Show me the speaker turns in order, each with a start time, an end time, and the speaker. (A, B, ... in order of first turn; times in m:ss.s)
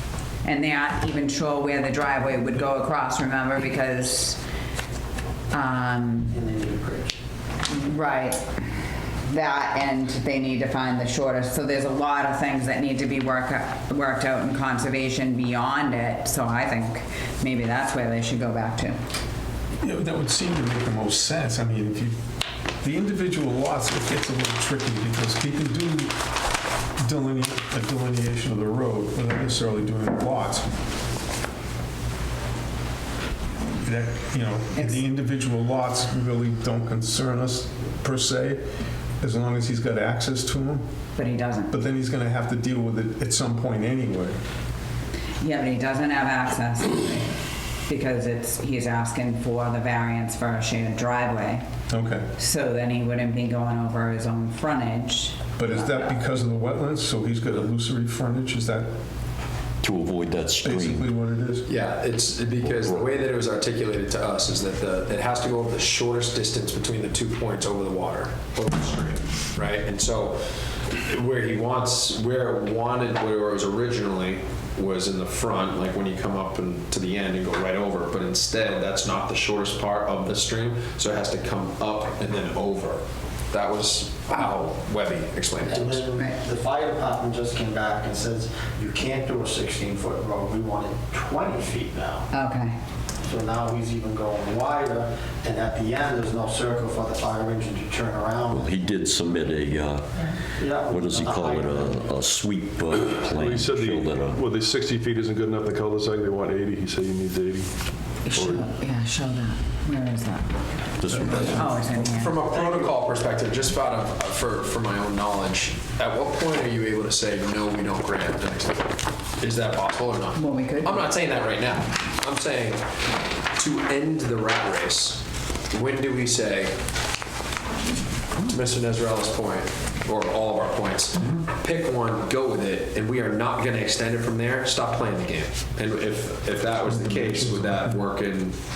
0:00.4-0:04.4 A
0:05.5-0:06.4 A
0:06.3-0:07.2 B
0:07.7-0:08.4 A
0:09.2-0:19.0 A
0:19.8-0:22.2 C
0:22.8-0:26.1 C
0:27.0-0:30.6 C
0:33.8-0:38.6 C
0:34.7-0:35.0 A
0:39.2-0:40.8 C
0:41.1-0:41.7 A
0:41.7-0:44.4 C
0:45.4-0:47.3 A
0:47.9-0:51.6 A
0:51.9-0:52.3 C
0:52.4-0:56.2 A
0:55.6-0:58.9 C
0:59.8-1:01.1 D
1:00.6-1:01.7 C
1:01.6-1:26.1 E
1:02.6-1:03.0 D
1:25.6-1:32.3 B
1:32.3-1:32.7 A
1:33.2-1:38.9 B
1:38.5-1:44.4 D
1:40.5-1:42.1 B
1:43.0-1:48.6 F
1:48.2-1:52.4 A
1:51.0-1:51.6 D
1:51.1-1:52.9 C
1:52.0-2:02.8 E
2:00.3-2:01.0 A
2:03.6-2:06.8 E
2:08.4-2:18.6 E
2:16.8-2:18.0 C